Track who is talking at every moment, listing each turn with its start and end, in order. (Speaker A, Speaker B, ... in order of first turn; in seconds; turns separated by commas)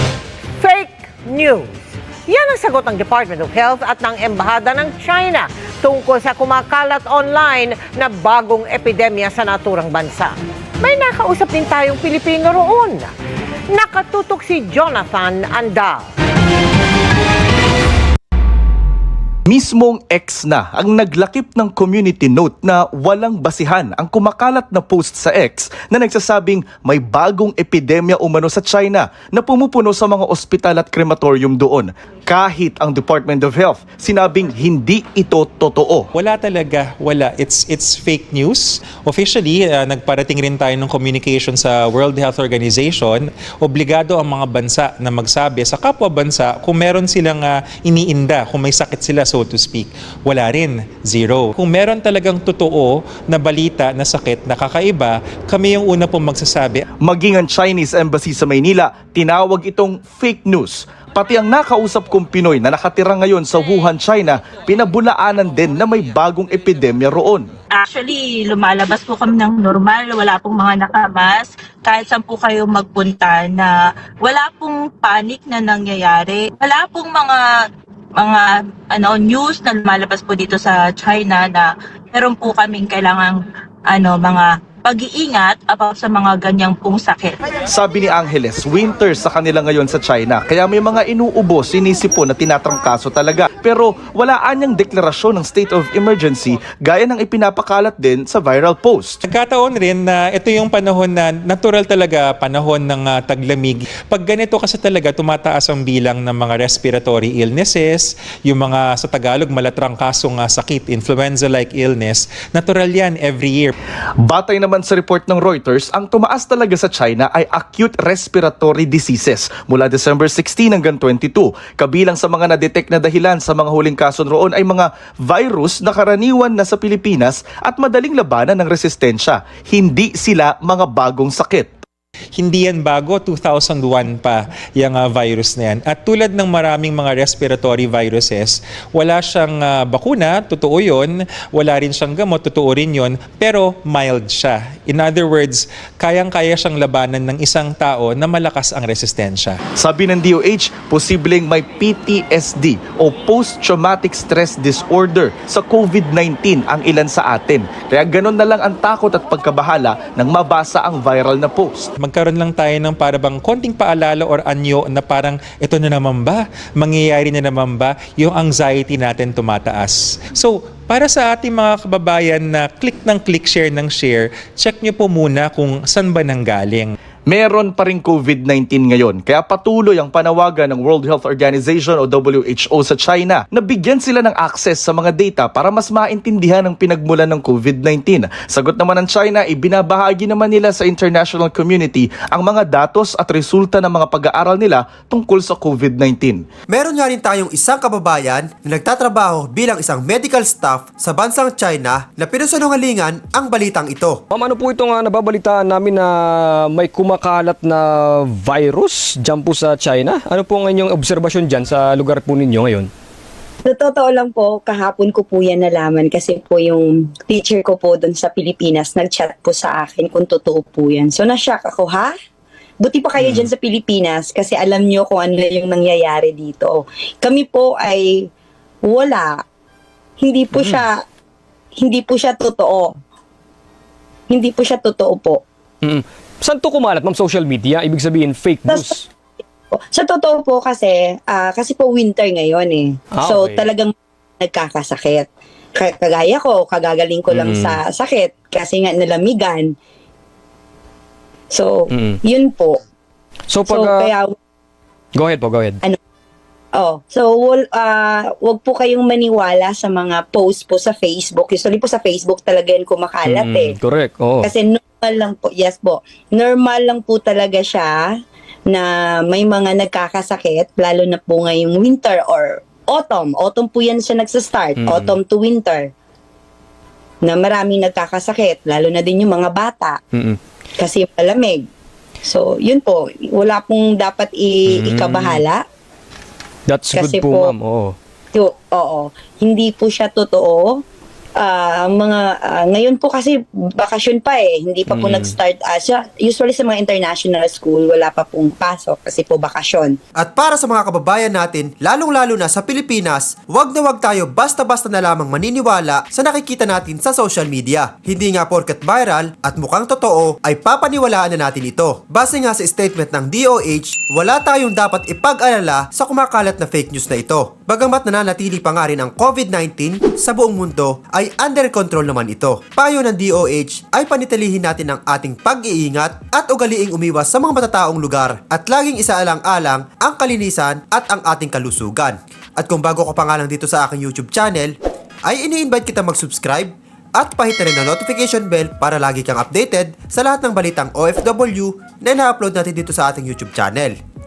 Speaker A: 0.6-1.7, Speaker A: 2.3-13.1, Speaker A: 13.7-16.1, Speaker B: 19.5-36.0, Speaker C: 36.1-56.8, Speaker B: 57.0-67.5, Speaker D: 67.7-77.5, Speaker D: 78.2-87.4, Speaker B: 87.7-99.2, Speaker C: 99.2-113.7, Speaker B: 114.2-131.7, Speaker C: 132.4-149.6, Speaker B: 149.8-161.9, Speaker C: 162.0-176.9, Speaker B: 177.3-196.4, Speaker E: 196.7-204.2, Speaker F: 204.3-212.9, Speaker G: 213.7-222.1, Speaker G: 222.8-228.3, Speaker G: 228.8-229.4, Speaker G: 230.2-231.0, Speaker G: 231.8-233.0, Speaker G: 234.3-235.4, Speaker F: 235.8-239.0, Speaker G: 238.7-239.1, Speaker G: 239.7-249.7, Speaker F: 243.1-243.7, Speaker F: 247.3-247.8, Speaker G: 251.5-252.8, Speaker F: 253.5-254.1, Speaker G: 253.6-254.3, Speaker F: 255.1-255.8, Speaker G: 256.8-263.8, Speaker F: 263.2-264.5, Speaker G: 264.4-268.1, Speaker G: 268.7-275.9, Speaker F: 274.8-275.1, Speaker G: 277.2-280.0, Speaker G: 280.8-281.6, Speaker G: 282.2-285.6, Speaker F: 284.8-285.4, Speaker F: 286.7-287.9, Speaker G: 286.9-287.6, Speaker G: 288.3-290.8, Speaker G: 291.4-300.0, Speaker F: 294.9-295.3, Speaker E: 300.2-334.7, Speaker E: 335.3-343.9